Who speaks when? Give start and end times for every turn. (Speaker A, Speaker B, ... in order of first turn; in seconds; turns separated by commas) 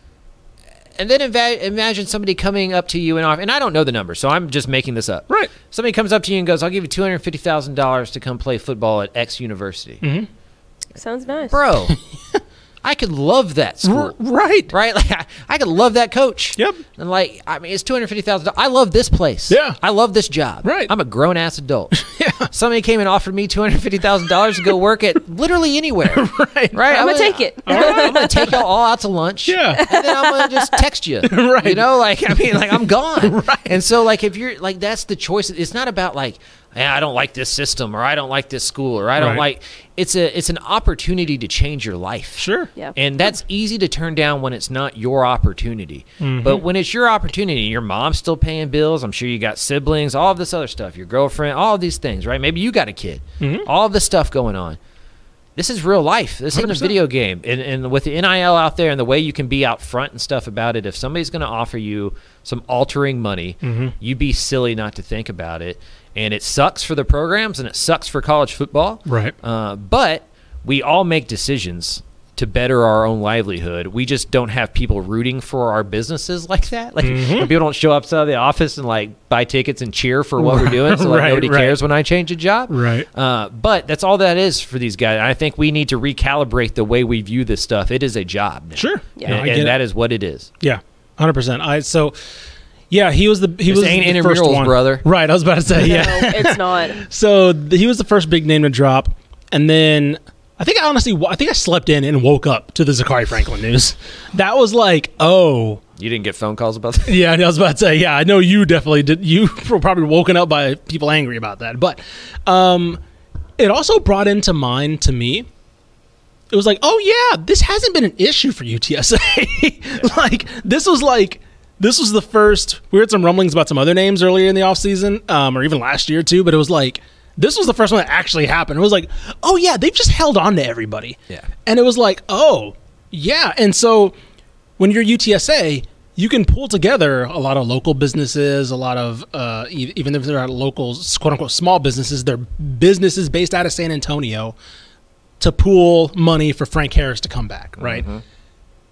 Speaker A: 1.0-10.0, Speaker B: 10.0-10.3, Speaker C: 11.0-11.6, Speaker A: 11.4-12.0, Speaker A: 12.8-14.2, Speaker B: 13.8-14.7, Speaker A: 14.7-22.0, Speaker B: 16.6-16.8, Speaker B: 19.5-19.8, Speaker B: 20.6-20.9, Speaker B: 21.9-22.5, Speaker A: 22.5-54.8, Speaker B: 26.1-26.9, Speaker C: 26.9-28.5, Speaker B: 27.6-28.5, Speaker B: 29.5-29.8, Speaker C: 29.8-30.8, Speaker B: 31.2-31.9, Speaker B: 33.2-33.8, Speaker B: 39.2-39.4, Speaker B: 42.4-42.7, Speaker B: 46.2-46.6, Speaker B: 53.4-53.7, Speaker A: 55.6-90.5, Speaker B: 56.5-56.9, Speaker B: 63.6-63.9, Speaker B: 69.1-69.3, Speaker B: 77.0-77.5, Speaker B: 80.4-81.8, Speaker B: 82.7-83.1, Speaker B: 88.8-89.8, Speaker B: 90.6-92.2, Speaker B: 92.9-105.8, Speaker A: 93.7-95.0, Speaker C: 95.8-97.0, Speaker A: 106.0-107.2, Speaker B: 107.1-113.0, Speaker B: 113.6-115.5, Speaker B: 116.5-134.2, Speaker B: 134.8-144.6, Speaker B: 145.4-148.1, Speaker A: 147.8-148.2